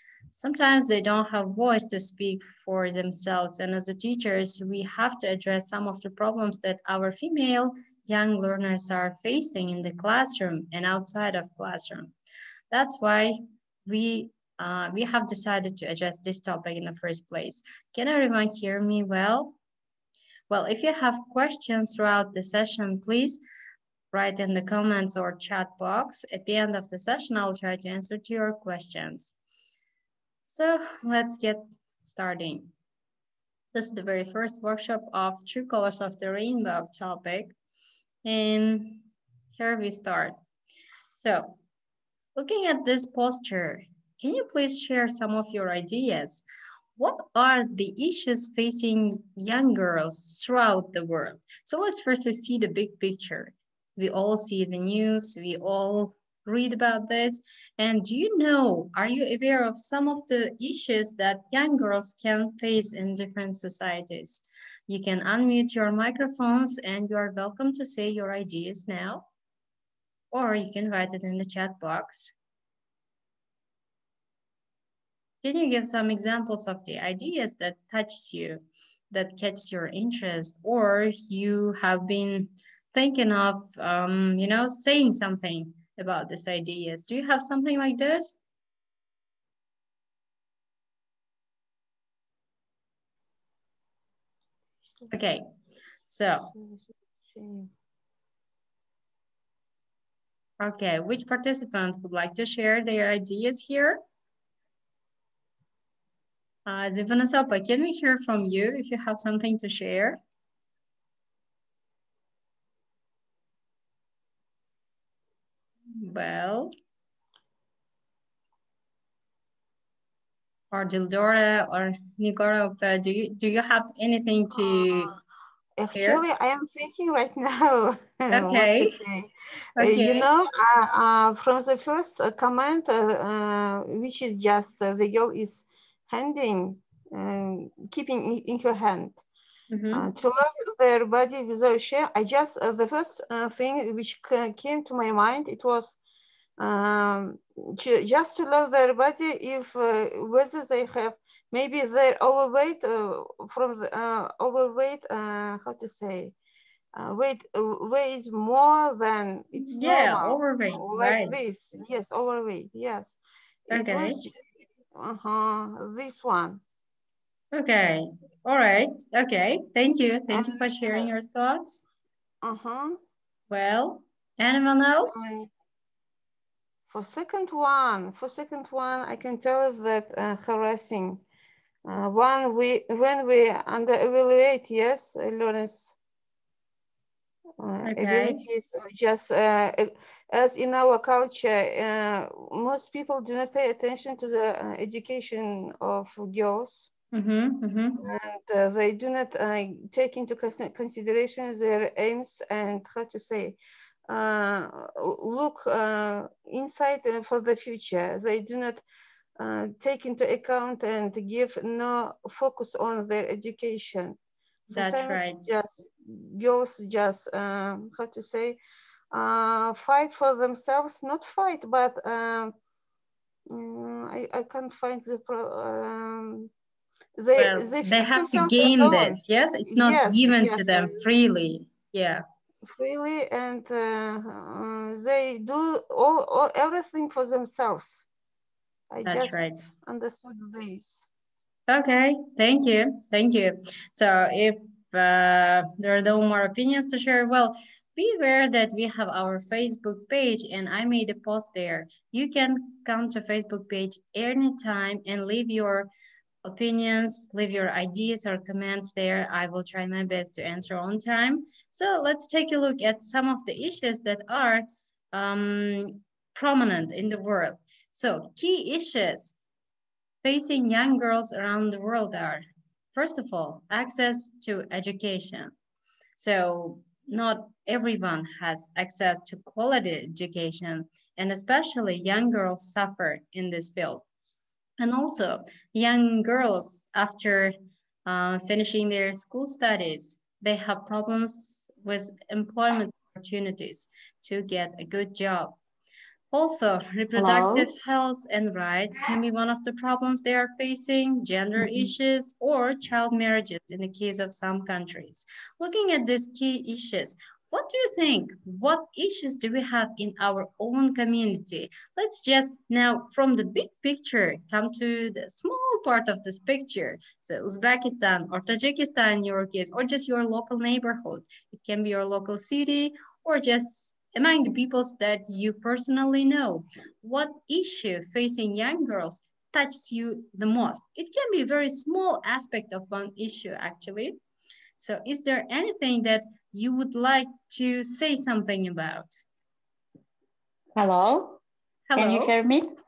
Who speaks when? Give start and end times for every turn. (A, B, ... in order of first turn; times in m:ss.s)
0:00.3-0:12.1 A
0:12.7-0:19.6 A
0:20.5-0:23.4 A
0:24.1-0:29.3 A
0:30.4-0:32.7 A
0:33.7-0:37.6 A
0:38.2-0:40.3 A
0:41.1-0:41.6 A
0:42.4-0:46.4 A
0:47.0-1:09.2 A
1:10.3-1:12.3 A
1:15.4-1:28.4 A
1:35.1-1:35.5 A
1:36.0-1:36.5 A
1:36.5-1:37.7 B
1:40.6-1:44.0 A
1:46.6-1:50.2 A
1:55.9-1:56.7 A
2:00.7-2:05.1 A
2:04.6-2:05.2 B
2:05.8-2:19.2 B
2:05.9-2:06.2 A
2:08.3-2:08.9 A
2:09.8-2:10.3 A
2:19.7-2:20.0 A
2:19.9-2:26.0 B
2:26.6-2:36.3 B
2:36.9-2:44.4 B
2:39.6-2:41.4 A
2:43.7-2:44.2 A
2:44.9-2:46.6 B
2:47.5-2:51.8 A
2:50.3-2:51.1 B
2:52.4-2:53.0 B
2:53.5-2:55.2 A
2:55.1-2:55.5 B
2:56.9-3:01.2 B
3:01.8-3:06.0 B
3:07.6-3:16.9 B
3:07.8-3:08.4 A
3:17.1-3:18.0 A
3:18.0-3:28.8 B
3:29.4-3:38.6 B
3:34.7-3:35.4 A
3:39.1-3:42.5 B
3:43.5-3:46.5 B
3:47.2-3:51.0 B
3:47.4-3:52.2 A
3:52.6-3:58.0 B
3:58.9-4:01.1 B
3:59.0-3:59.6 A
4:01.7-4:15.9 A
4:16.4-4:29.3 A
4:30.2-4:35.5 A
4:36.2-4:44.0 A
4:44.8-4:47.5 A
4:48.0-4:55.6 A
4:56.3-5:34.2 A
4:57.2-4:57.7 C
5:34.8-5:39.1 A
5:40.7-5:41.4 C
5:41.9-5:42.3 A
5:42.0-5:42.7 C